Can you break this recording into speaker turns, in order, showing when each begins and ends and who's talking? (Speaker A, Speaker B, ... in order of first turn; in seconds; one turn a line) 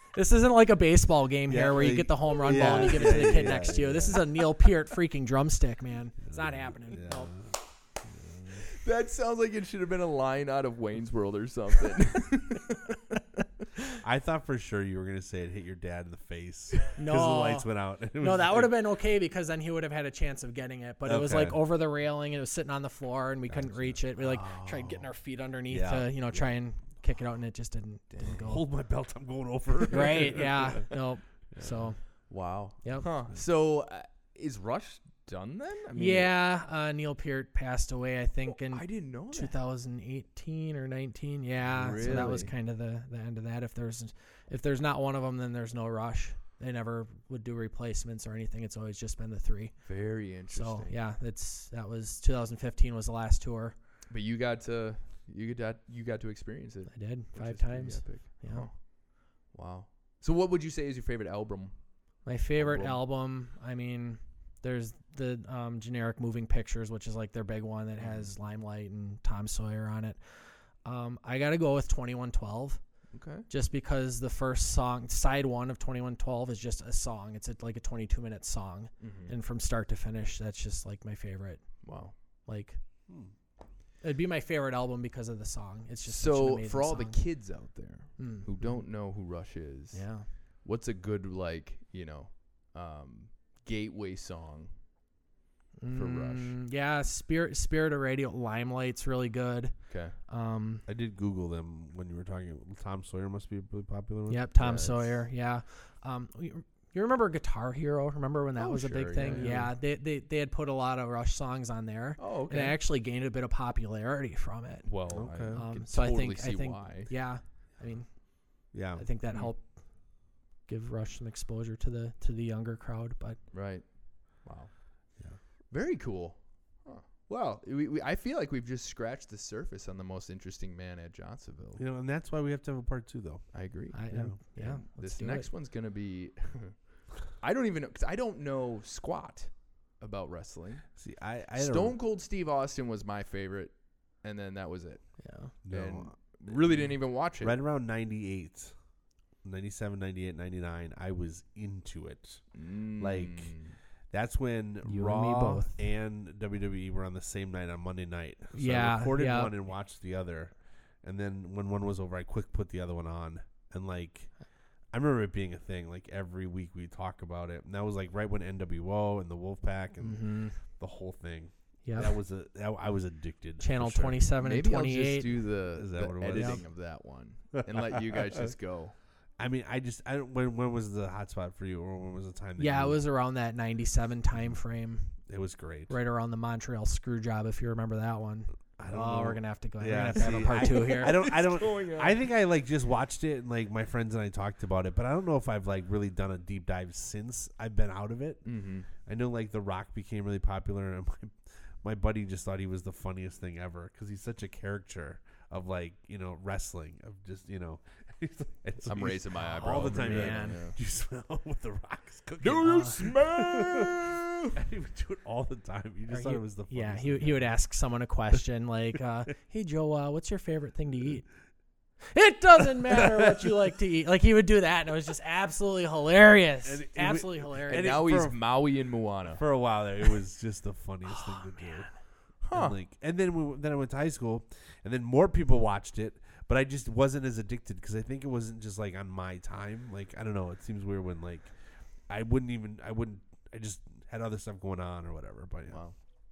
Speaker A: 0.1-7.3
Speaker B: 1.5-4.3
Speaker B: 6.2-8.6
Speaker C: 8.8-13.2
Speaker B: 14.0-18.7
Speaker A: 17.0-28.6
Speaker B: 21.1-21.6
Speaker B: 23.5-24.0
Speaker C: 24.2-25.1
Speaker B: 25.7-26.5
Speaker C: 28.1-28.5
Speaker B: 28.4-30.9
Speaker A: 29.9-32.0
Speaker B: 31.5-31.9
Speaker C: 32.3-36.3
Speaker A: 32.8-33.1
Speaker A: 35.9-53.8
Speaker C: 38.7-39.6
Speaker C: 41.7-42.5
Speaker C: 49.9-51.0
Speaker C: 54.1-58.9
Speaker A: 56.9-58.7
Speaker C: 59.4-61.8
Speaker A: 62.2-72.8
Speaker C: 62.6-63.0
Speaker C: 68.0-68.3
Speaker C: 73.1-73.5
Speaker A: 73.5-81.9
Speaker C: 79.0-79.3
Speaker C: 81.8-82.1
Speaker A: 82.5-82.8
Speaker A: 84.0-87.2
Speaker C: 86.1-94.7
Speaker A: 88.2-88.7
Speaker A: 89.9-90.3
Speaker A: 95.8-99.8
Speaker C: 95.9-96.6
Speaker C: 99.9-100.2
Speaker A: 100.3-100.8
Speaker B: 100.9-104.5
Speaker A: 104.3-118.3
Speaker C: 104.6-105.2
Speaker C: 108.6-109.7
Speaker B: 109.2-109.7
Speaker C: 112.2-112.8
Speaker C: 114.8-117.1
Speaker B: 115.1-115.7
Speaker B: 118.7-119.0
Speaker A: 119.0-119.7
Speaker A: 120.7-123.4
Speaker C: 123.5-124.7
Speaker C: 125.7-131.8
Speaker B: 131.8-133.5
Speaker C: 133.5-140.9
Speaker A: 133.9-135.5
Speaker B: 134.1-134.4
Speaker B: 141.0-142.0
Speaker C: 141.6-145.2
Speaker A: 145.2-145.5
Speaker B: 145.7-148.7
Speaker C: 145.7-147.6
Speaker B: 149.4-152.4
Speaker C: 152.5-153.8
Speaker B: 153.0-153.6
Speaker B: 154.1-164.3
Speaker A: 154.8-155.8
Speaker A: 158.5-159.5
Speaker B: 164.9-174.2
Speaker A: 170.0-170.6
Speaker A: 171.8-172.2
Speaker A: 173.6-175.4
Speaker C: 174.3-178.9
Speaker B: 175.7-176.7
Speaker A: 176.3-176.6
Speaker B: 177.5-178.5
Speaker B: 179.4-183.0
Speaker A: 182.6-185.2
Speaker B: 185.3-185.9
Speaker A: 185.9-191.2
Speaker B: 188.8-213.9
Speaker C: 190.2-192.2
Speaker C: 198.4-198.9
Speaker C: 208.9-210.8
Speaker A: 209.6-210.6
Speaker C: 212.4-214.5
Speaker B: 214.6-217.5
Speaker A: 216.1-221.2
Speaker A: 222.1-228.0
Speaker B: 223.1-223.4
Speaker B: 226.7-228.4
Speaker C: 227.7-229.4
Speaker B: 229.3-231.9
Speaker A: 231.1-231.9
Speaker C: 232.4-232.8
Speaker B: 232.5-241.5
Speaker B: 242.1-245.8
Speaker C: 245.7-246.0